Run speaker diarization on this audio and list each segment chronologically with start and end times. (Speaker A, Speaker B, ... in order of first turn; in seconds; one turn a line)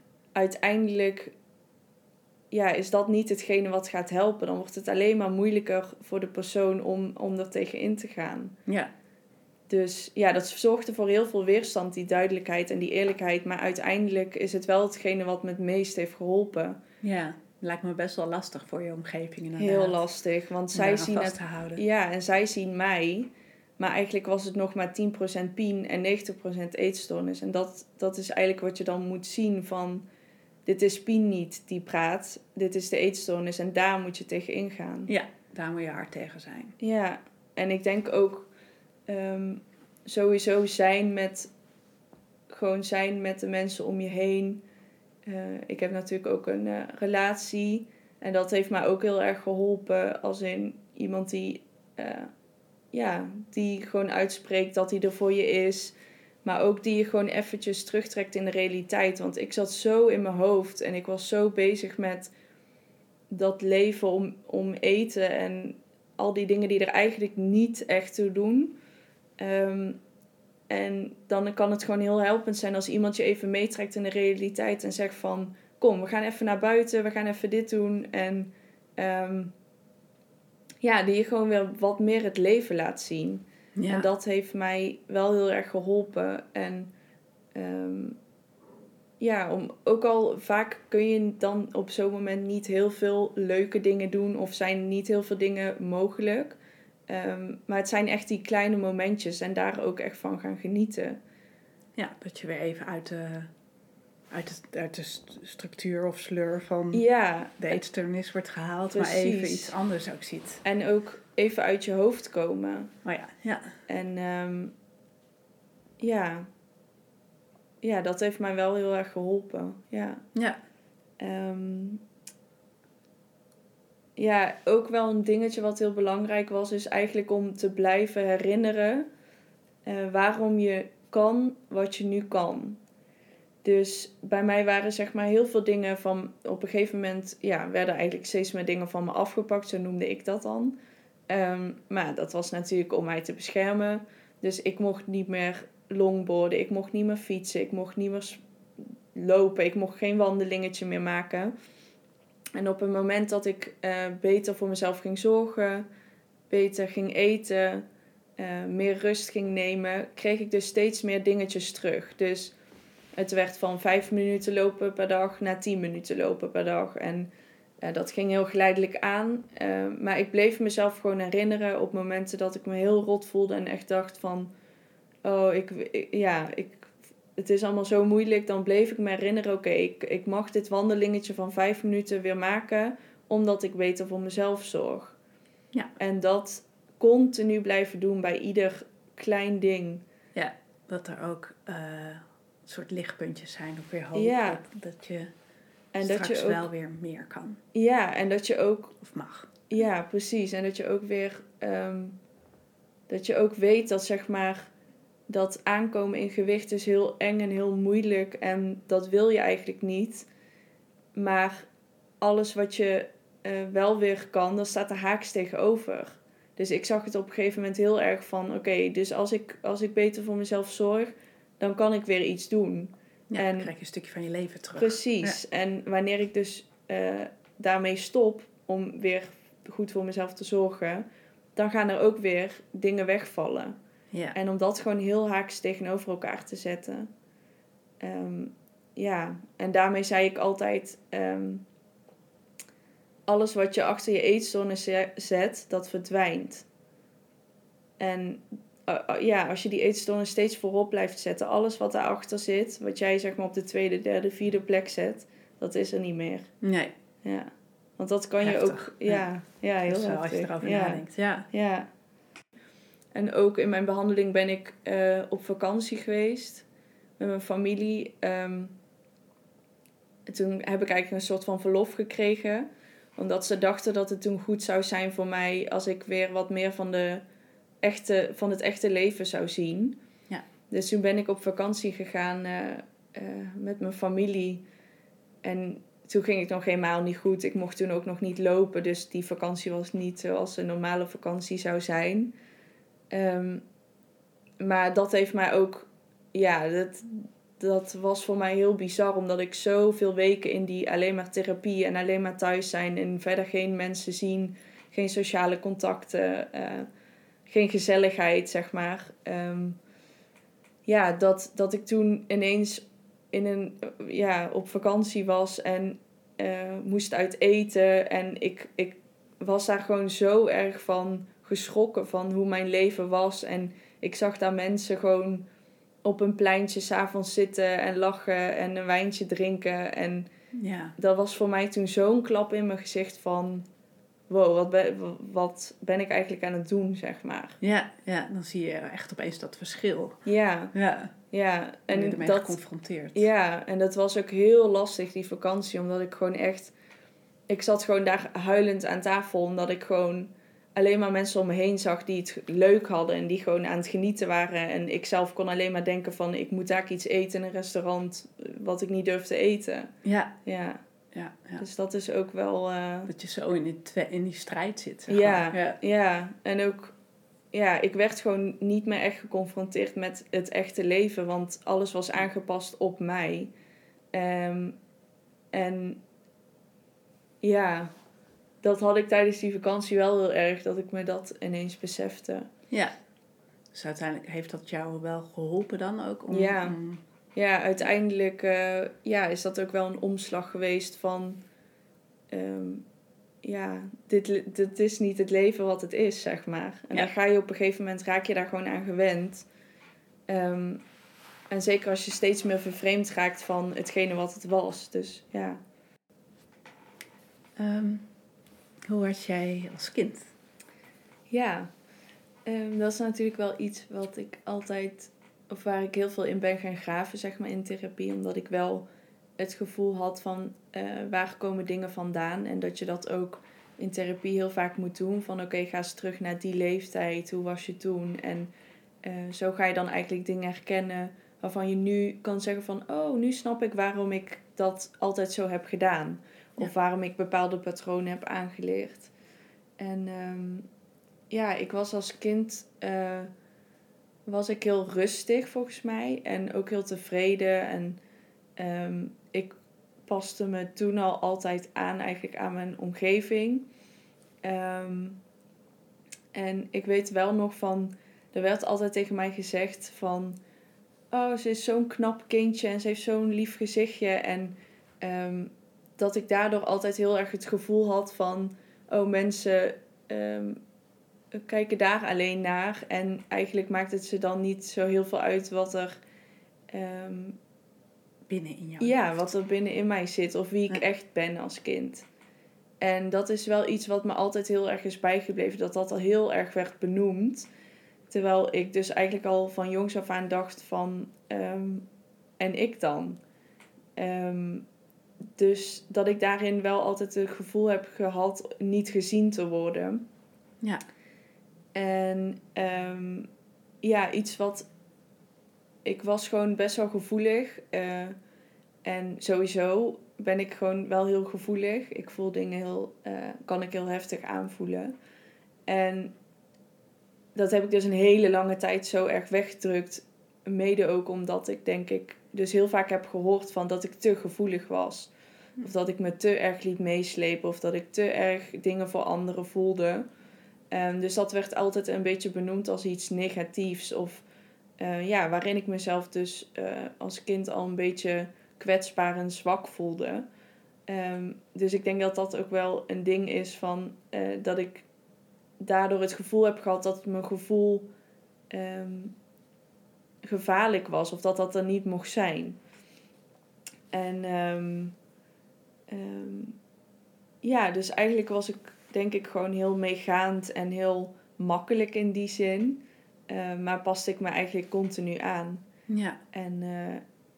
Speaker A: 0.3-1.3
Speaker A: 2.5-8.6
Speaker B: 8.7-8.9
Speaker A: 9.7-16.8
Speaker B: 17.0-20.0
Speaker A: 19.6-30.0
Speaker B: 20.7-21.8
Speaker A: 30.6-35.1
Speaker B: 35.1-36.8
Speaker A: 36.8-38.5
Speaker A: 39.1-41.5
Speaker A: 42.5-44.6
Speaker A: 45.2-52.3
Speaker A: 52.9-62.3
Speaker A: 63.3-68.8
Speaker A: 69.4-70.0
Speaker A: 70.7-79.5
Speaker A: 80.8-86.9
Speaker B: 83.8-84.1
Speaker A: 87.5-88.2
Speaker A: 89.2-96.6
Speaker A: 97.1-101.2
Speaker B: 102.0-103.5
Speaker B: 104.3-107.0
Speaker A: 106.9-107.8
Speaker B: 107.6-110.6
Speaker A: 108.9-109.7
Speaker A: 110.6-112.9
Speaker B: 113.0-113.8
Speaker A: 113.9-114.7
Speaker A: 116.0-116.5
Speaker A: 117.8-120.2
Speaker B: 120.3-120.6
Speaker A: 121.2-122.0
Speaker A: 124.2-129.1
Speaker A: 129.8-132.8
Speaker A: 133.6-140.8
Speaker A: 141.3-148.4
Speaker A: 149.1-151.5
Speaker A: 152.6-155.8
Speaker A: 156.5-157.8
Speaker A: 158.4-162.5
Speaker A: 163.2-167.3
Speaker A: 167.8-174.5
Speaker A: 175.2-185.2
Speaker A: 186.0-190.0
Speaker B: 190.3-195.3
Speaker A: 194.1-194.6
Speaker A: 195.9-196.6
Speaker B: 196.0-197.6
Speaker A: 197.7-199.0
Speaker B: 199.0-199.5
Speaker A: 199.7-202.2
Speaker A: 203.1-204.7
Speaker A: 205.3-210.3
Speaker A: 211.1-211.7
Speaker A: 212.2-223.7
Speaker B: 223.3-225.4
Speaker A: 224.7-233.8
Speaker A: 234.3-237.1
Speaker A: 238.0-241.7
Speaker A: 243.3-246.7
Speaker A: 248.0-256.5
Speaker B: 256.6-256.9
Speaker A: 257.2-261.9
Speaker B: 258.4-259.3
Speaker B: 259.9-261.5
Speaker A: 263.1-266.6
Speaker A: 267.2-268.7
Speaker A: 270.3-277.2
Speaker A: 277.8-280.0
Speaker A: 280.7-284.6
Speaker A: 285.4-292.3
Speaker A: 293.1-293.6
Speaker A: 294.6-306.9
Speaker A: 307.4-309.8
Speaker A: 310.9-325.4
Speaker A: 326.0-330.3
Speaker B: 330.5-330.9
Speaker A: 331.0-333.6
Speaker A: 334.3-337.6
Speaker B: 337.6-341.1
Speaker A: 340.2-340.7
Speaker A: 341.3-342.6
Speaker B: 341.9-343.3
Speaker A: 343.1-346.7
Speaker A: 347.5-359.9
Speaker B: 360.0-360.3
Speaker A: 360.4-360.8
Speaker B: 361.1-361.6
Speaker A: 361.6-363.1
Speaker B: 363.1-365.8
Speaker A: 365.1-366.9
Speaker A: 367.5-373.5
Speaker A: 374.1-374.8
Speaker A: 375.5-376.0
Speaker A: 377.4-377.9
Speaker A: 378.6-382.5
Speaker B: 382.7-382.9
Speaker B: 383.7-387.0
Speaker A: 386.3-386.8
Speaker A: 387.3-391.4
Speaker A: 392.3-392.8
Speaker A: 393.4-399.4
Speaker A: 400.3-400.8
Speaker A: 401.5-405.6
Speaker B: 407.6-408.1
Speaker B: 408.8-410.3
Speaker A: 411.3-411.7
Speaker A: 412.4-418.9
Speaker A: 419.4-428.5
Speaker A: 429.0-439.1
Speaker A: 439.8-440.7
Speaker A: 441.3-443.3
Speaker A: 444.3-448.0
Speaker A: 448.6-449.5
Speaker A: 450.1-453.7
Speaker A: 454.4-455.2
Speaker A: 456.3-460.4
Speaker A: 461.1-470.6
Speaker A: 471.3-476.0
Speaker A: 476.7-477.4
Speaker B: 478.3-479.3
Speaker A: 478.8-482.1
Speaker A: 482.8-487.5
Speaker A: 488.1-491.9
Speaker A: 492.4-493.2
Speaker A: 493.9-494.6
Speaker A: 495.4-500.0
Speaker A: 501.7-503.3
Speaker A: 503.8-504.6
Speaker A: 505.8-508.1
Speaker A: 508.8-514.9
Speaker A: 515.7-516.1
Speaker A: 517.3-530.0
Speaker A: 530.7-534.2
Speaker A: 534.8-540.2
Speaker A: 540.9-544.9
Speaker A: 545.6-547.9
Speaker A: 548.5-549.1
Speaker A: 550.2-552.6
Speaker A: 553.9-554.9
Speaker A: 555.9-556.6
Speaker A: 557.4-565.6
Speaker B: 565.9-566.2
Speaker A: 566.3-567.0